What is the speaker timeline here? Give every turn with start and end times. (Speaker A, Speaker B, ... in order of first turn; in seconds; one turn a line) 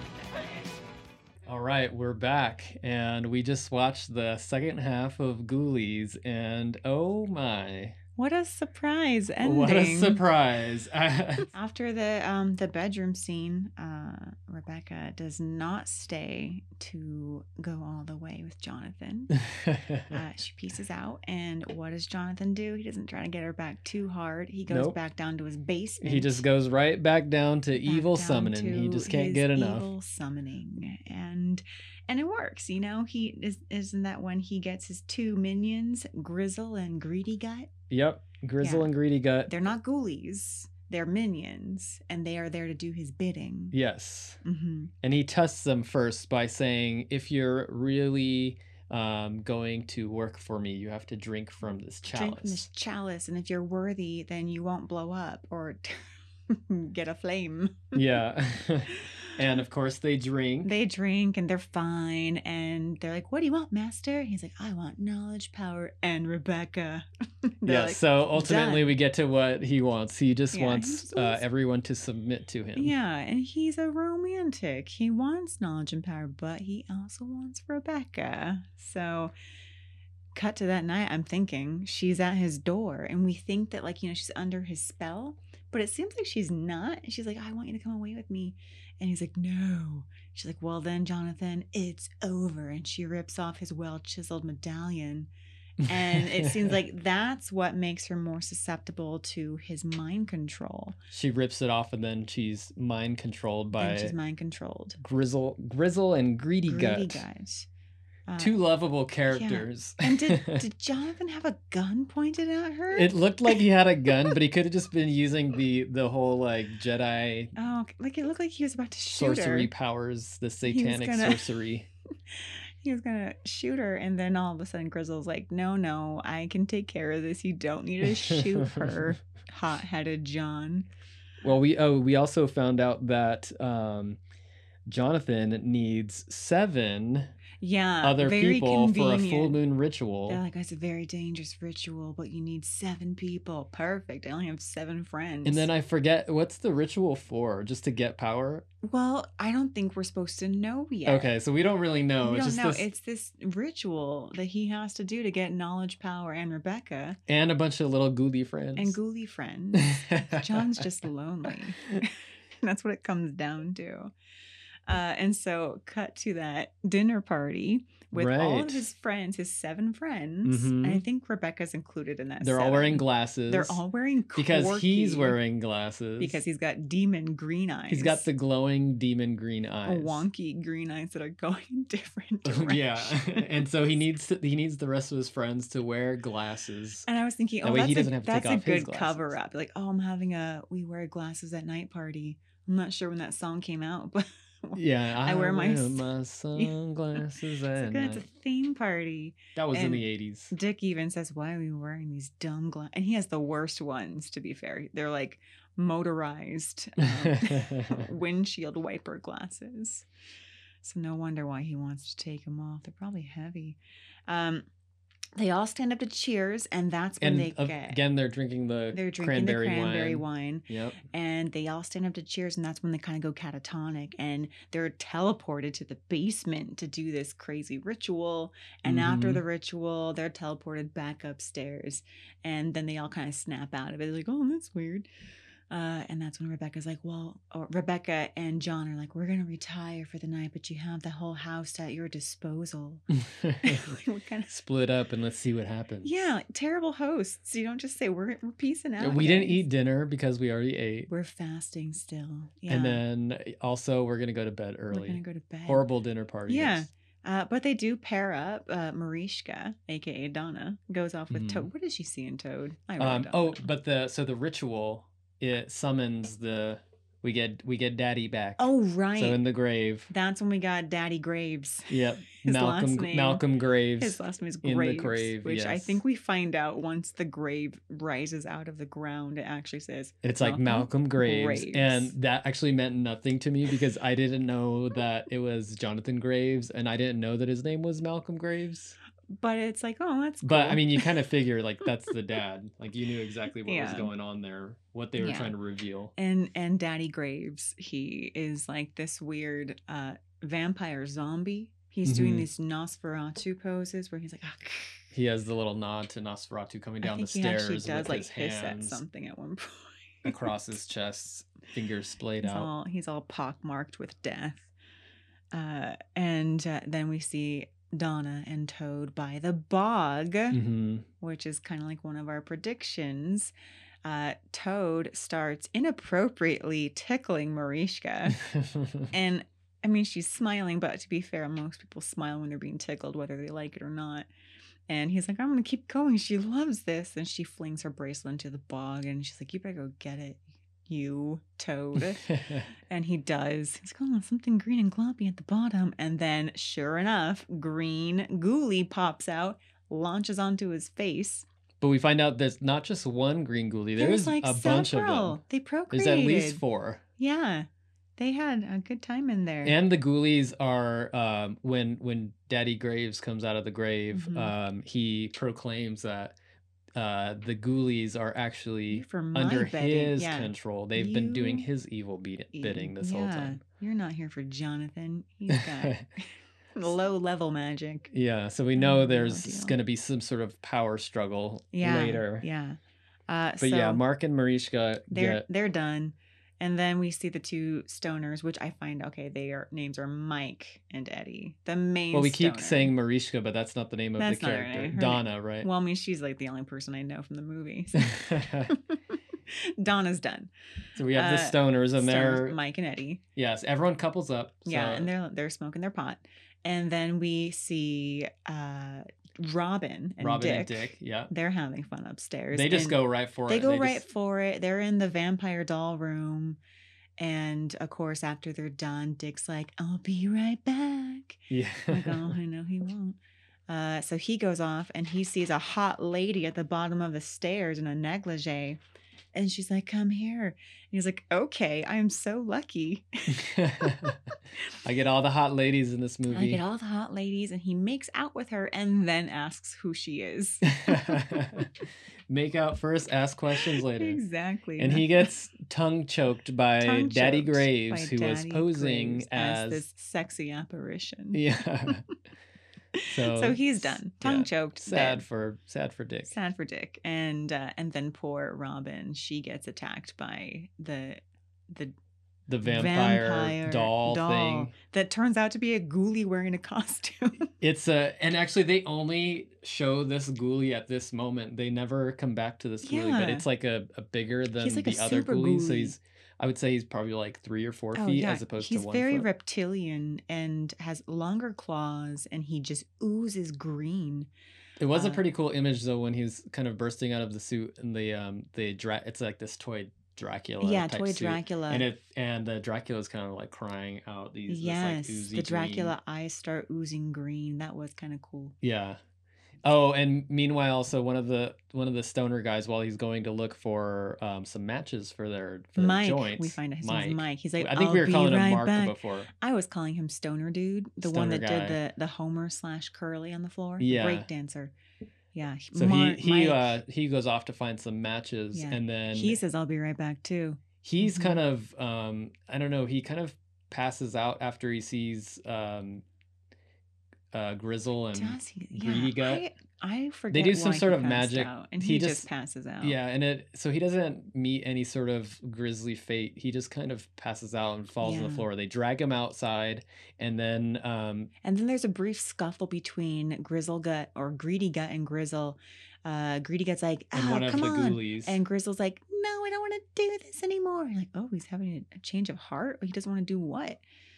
Speaker A: 1.4-8.0
Speaker B: 8.2-10.2
Speaker A: 9.4-11.5
Speaker B: 11.5-19.4
Speaker A: 19.5-20.1
Speaker B: 20.1-26.4
Speaker A: 24.7-24.9
Speaker A: 26.0-29.9
Speaker B: 27.8-37.7
Speaker A: 37.9-39.5
Speaker B: 38.6-38.9
Speaker B: 39.5-43.7
Speaker A: 43.7-44.4
Speaker B: 44.4-44.9
Speaker A: 45.0-52.6
Speaker B: 52.1-58.0
Speaker A: 57.9-60.7
Speaker B: 60.6-68.9
Speaker A: 67.6-72.9
Speaker B: 70.5-71.4
Speaker B: 72.8-79.3
Speaker B: 80.3-95.3
Speaker A: 95.8-96.8
Speaker B: 95.8-101.0
Speaker A: 101.1-104.1
Speaker B: 103.8-105.0
Speaker A: 105.0-107.2
Speaker B: 106.6-107.7
Speaker B: 108.3-108.5
Speaker A: 108.4-110.6
Speaker B: 109.3-113.6
Speaker A: 112.9-117.5
Speaker B: 117.5-119.7
Speaker A: 119.1-121.9
Speaker B: 120.7-121.5
Speaker B: 122.3-130.9
Speaker A: 128.0-129.1
Speaker A: 131.4-134.2
Speaker A: 134.9-137.3
Speaker B: 137.6-139.6
Speaker A: 138.0-140.4
Speaker B: 140.3-145.7
Speaker A: 145.4-148.7
Speaker B: 148.8-151.3
Speaker A: 151.0-152.9
Speaker B: 152.2-157.2
Speaker A: 157.3-159.0
Speaker B: 158.8-164.1
Speaker A: 159.7-160.8
Speaker B: 164.9-175.4
Speaker A: 168.1-168.9
Speaker A: 170.4-171.0
Speaker A: 172.4-173.8
Speaker A: 174.3-176.4
Speaker B: 176.2-178.2
Speaker A: 177.9-180.2
Speaker B: 179.8-183.7
Speaker A: 182.4-187.1
Speaker B: 187.1-210.1
Speaker A: 187.6-189.3
Speaker A: 194.7-198.2
Speaker A: 199.6-200.5
Speaker A: 207.0-208.1
Speaker B: 210.8-214.7
Speaker B: 215.3-218.0
Speaker A: 217.2-221.0
Speaker B: 218.9-235.1
Speaker A: 228.8-229.4
Speaker B: 235.7-243.0
Speaker A: 243.1-244.0
Speaker B: 243.6-244.5
Speaker A: 244.5-246.2
Speaker B: 246.0-249.6
Speaker A: 249.0-251.1
Speaker B: 251.1-253.0
Speaker A: 252.7-256.9
Speaker B: 254.9-255.8
Speaker B: 256.5-263.7
Speaker A: 261.3-261.7
Speaker A: 263.0-270.1
Speaker B: 268.6-269.4
Speaker B: 270.1-273.4
Speaker A: 271.9-276.0
Speaker B: 274.0-282.1
Speaker A: 280.2-288.9
Speaker B: 289.3-291.2
Speaker A: 290.4-296.1
Speaker B: 293.6-294.1
Speaker B: 295.2-295.5
Speaker B: 296.2-305.1
Speaker A: 302.0-302.5
Speaker A: 305.1-309.0
Speaker B: 307.0-310.4
Speaker A: 310.2-312.7
Speaker B: 312.4-314.7
Speaker B: 315.5-320.6
Speaker A: 320.5-321.1
Speaker B: 321.2-323.5
Speaker B: 324.0-328.4
Speaker A: 328.4-329.1
Speaker B: 329.1-334.3
Speaker B: 334.9-351.4
Speaker A: 342.3-342.6
Speaker A: 351.8-357.0
Speaker B: 354.0-356.6
Speaker B: 357.2-359.8
Speaker A: 359.6-366.3
Speaker B: 364.1-364.5
Speaker A: 366.9-373.6
Speaker B: 368.9-371.6
Speaker B: 372.5-378.1
Speaker A: 375.5-376.1
Speaker A: 378.1-382.4
Speaker B: 378.7-379.8
Speaker B: 381.7-384.0
Speaker A: 383.6-385.4
Speaker B: 385.1-392.9
Speaker A: 392.1-395.7
Speaker B: 394.2-400.5
Speaker A: 398.0-398.7
Speaker A: 400.9-402.6
Speaker B: 401.1-403.2
Speaker A: 403.4-405.1
Speaker B: 404.6-416.6
Speaker A: 410.2-411.3
Speaker A: 412.5-414.0
Speaker B: 417.2-428.8
Speaker A: 421.5-422.4
Speaker B: 429.3-434.1
Speaker A: 433.3-434.2
Speaker A: 434.8-436.6
Speaker B: 436.3-441.3
Speaker A: 440.7-441.7
Speaker A: 442.3-444.2
Speaker B: 443.7-445.3
Speaker A: 444.8-449.9
Speaker B: 446.8-451.4
Speaker A: 451.3-452.0
Speaker B: 452.9-455.2
Speaker A: 453.1-456.3
Speaker B: 456.2-461.9
Speaker A: 462.5-464.7
Speaker B: 462.6-467.5
Speaker A: 467.6-479.3
Speaker B: 472.8-473.4
Speaker B: 474.6-475.9
Speaker B: 477.9-484.3
Speaker A: 484.8-495.9
Speaker B: 484.9-485.2
Speaker B: 490.6-491.8
Speaker B: 494.5-498.5
Speaker A: 498.6-499.0
Speaker A: 499.6-509.3
Speaker B: 505.8-514.7
Speaker A: 511.0-511.8
Speaker A: 513.8-514.3
Speaker B: 515.3-516.8
Speaker A: 515.7-519.4
Speaker B: 518.5-521.4
Speaker A: 520.8-526.0
Speaker A: 527.3-529.4
Speaker B: 528.1-533.0
Speaker A: 530.3-532.2
Speaker A: 532.8-541.3
Speaker B: 538.0-538.5
Speaker B: 541.4-553.8
Speaker A: 547.1-548.4